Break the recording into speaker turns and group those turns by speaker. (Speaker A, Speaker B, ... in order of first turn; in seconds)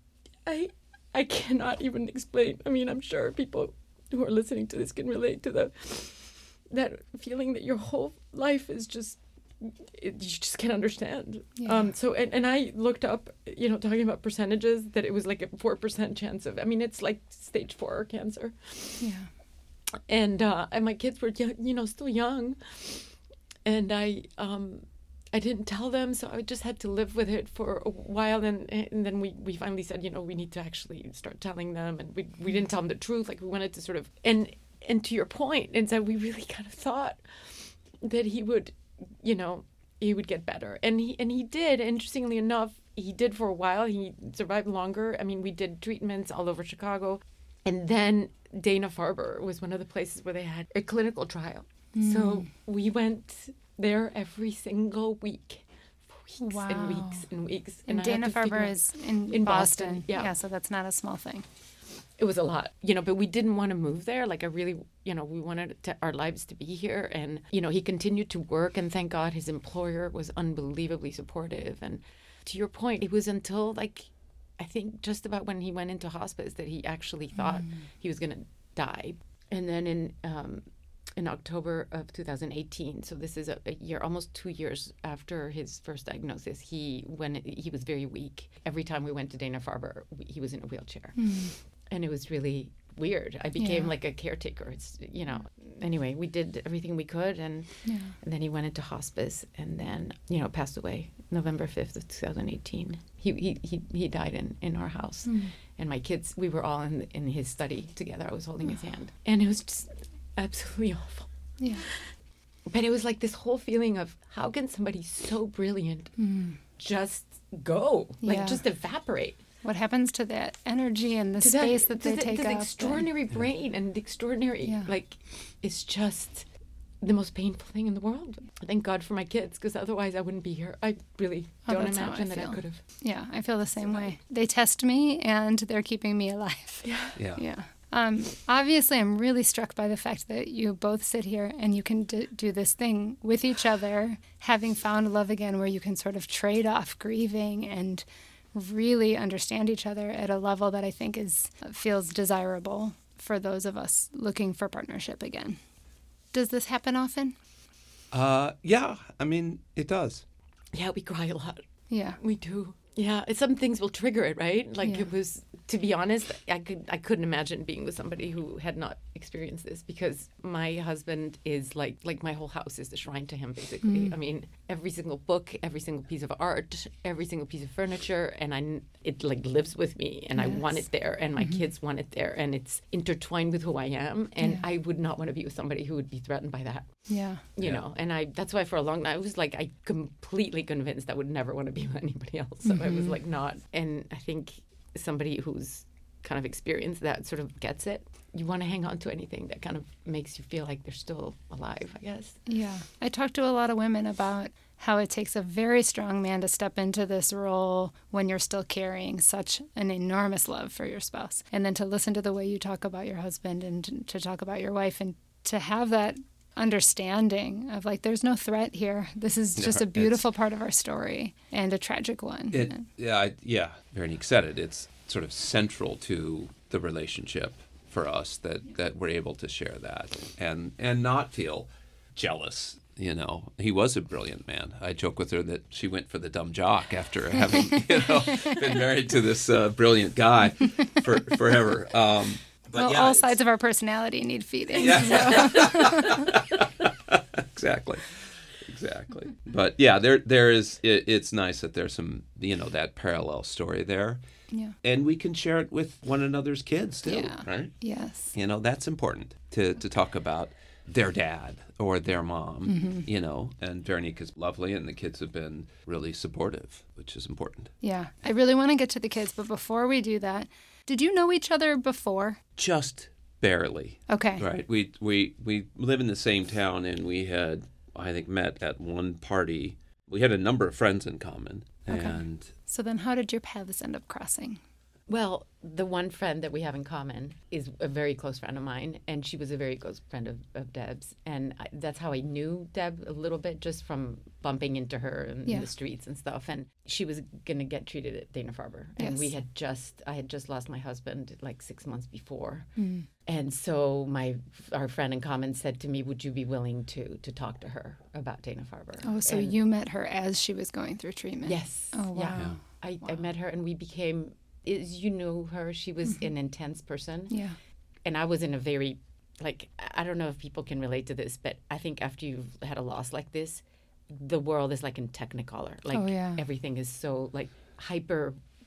Speaker A: 0.4-19.1, 20.1-60.3, 62.2-112.1, 112.7-116.2, 116.7-119.4, 121.4-126.5, 127.0-132.8, 136.8-137.2, 160.7-161.6, 162.2-202.4, 285.1-309.5, 311.4-317.4, 318.0-328.4
Speaker B: 11.6-11.9, 19.0-19.3, 51.9-52.5, 56.4-57.2, 57.9-61.4, 77.4-77.7, 91.2-91.5, 93.6-93.9, 97.8-98.1, 105.2-105.5, 116.2-116.6, 118.2-118.6, 119.6-123.0, 131.7-155.6, 156.3-157.3, 161.9-162.2, 173.8-174.1, 180.4-180.8, 187.1-187.4, 192.7-193.1, 202.5-222.8, 237.8-238.6, 242.7-246.4, 257.1-258.3, 262.6-263.1, 267.8-272.4, 274.1-274.4, 281.9-284.6, 299.0-299.3, 302.8-303.1, 309.0-312.6, 317.3-317.6, 325.9-326.4
Speaker C: 137.2-137.4, 158.1-160.2, 219.6-220.2, 222.5-243.4, 244.8-254.2, 254.8-257.7, 258.3-267.7, 272.6-282.5